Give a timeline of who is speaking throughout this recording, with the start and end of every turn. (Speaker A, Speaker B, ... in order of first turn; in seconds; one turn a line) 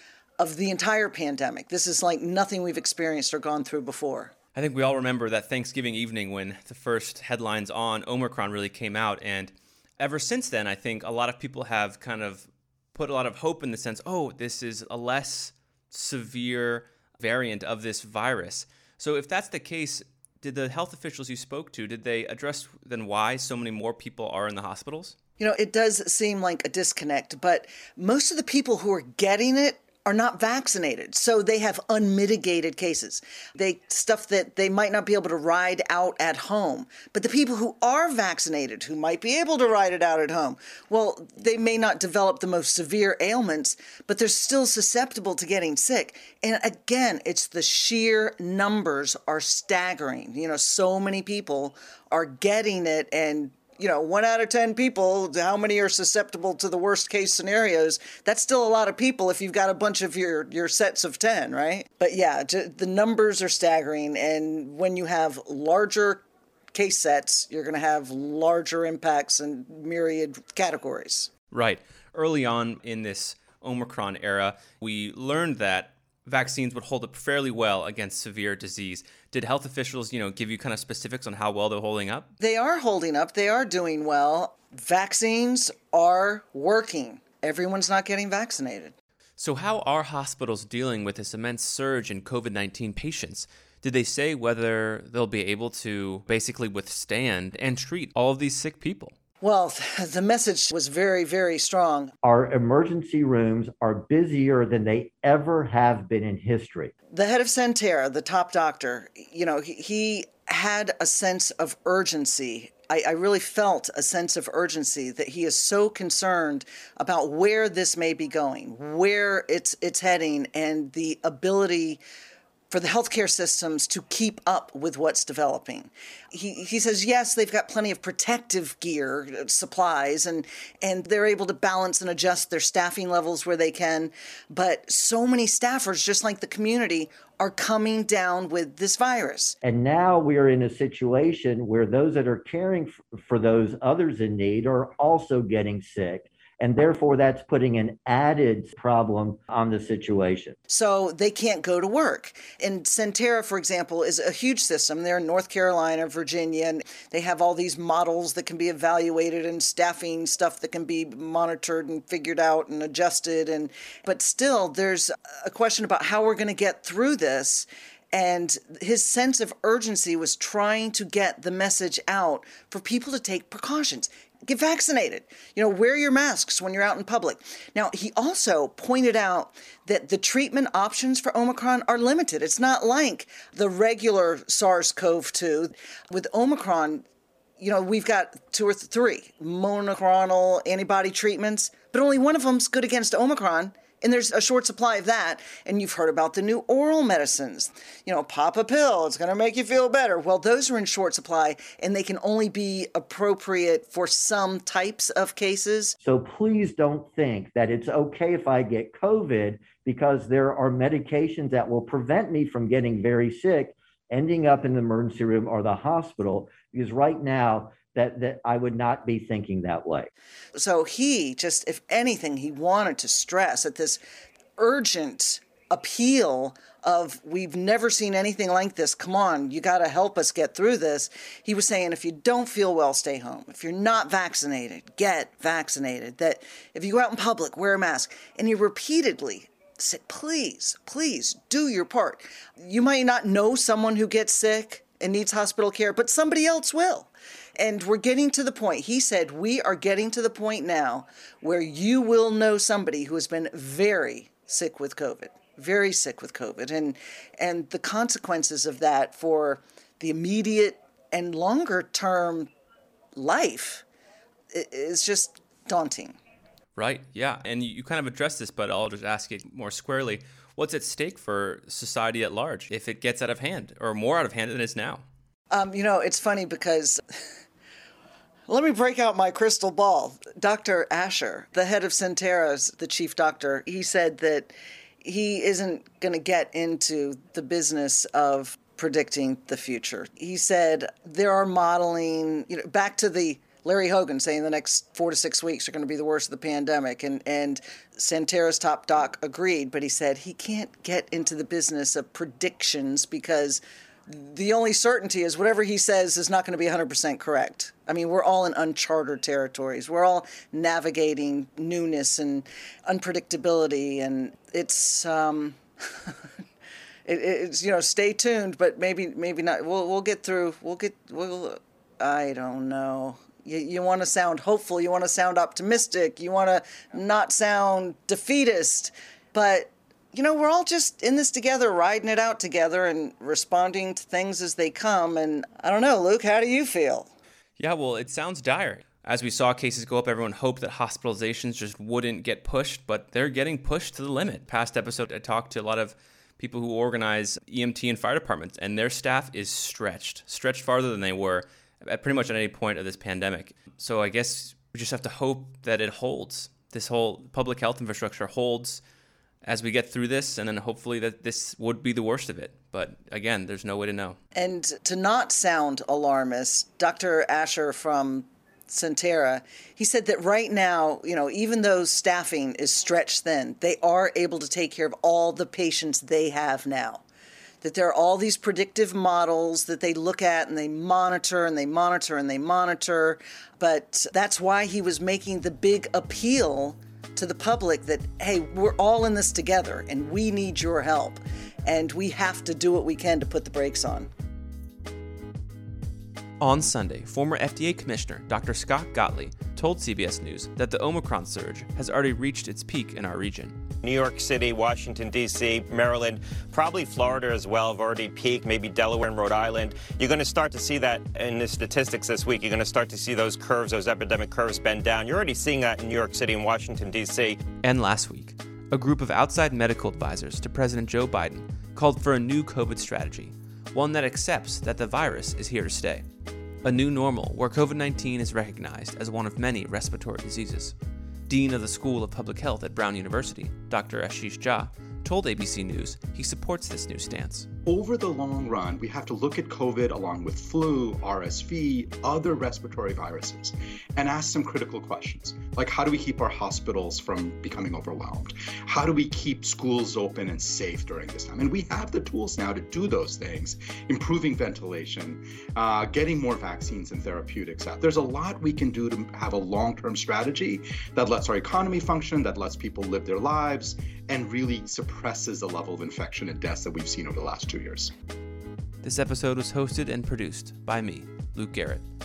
Speaker A: 0.4-4.3
Speaker B: 4.5-25.1
Speaker A: 25.4-71.3
Speaker B: 71.5-82.3
Speaker A: 82.4-88.9
Speaker B: 89.4-99.1
Speaker A: 99.4-102.1
Speaker C: 102.2-106.9
Speaker A: 107.1-122.0
Speaker A: 122.7-139.6
Speaker C: 139.6-150.5
Speaker A: 150.7-187.0
Speaker A: 187.6-205.9
Speaker C: 206.0-220.1
Speaker A: 220.6-224.0
Speaker A: 224.6-262.5
Speaker A: 263.1-263.8
Speaker A: 264.5-266.1
Speaker B: 266.8-275.0
Speaker A: 275.5-277.0
Speaker A: 278.5-316.1
Speaker A: 317.1-337.1
Speaker B: 337.6-358.8
Speaker B: 359.4-364.2
Speaker A: 364.3-377.0
Speaker A: 377.6-394.1
Speaker B: 396.4-403.6
Speaker D: 403.8-417.4
Speaker B: 417.6-426.0
Speaker B: 426.6-430.7
Speaker B: 431.3-437.5
Speaker E: 437.6-467.9
Speaker B: 468.8-471.8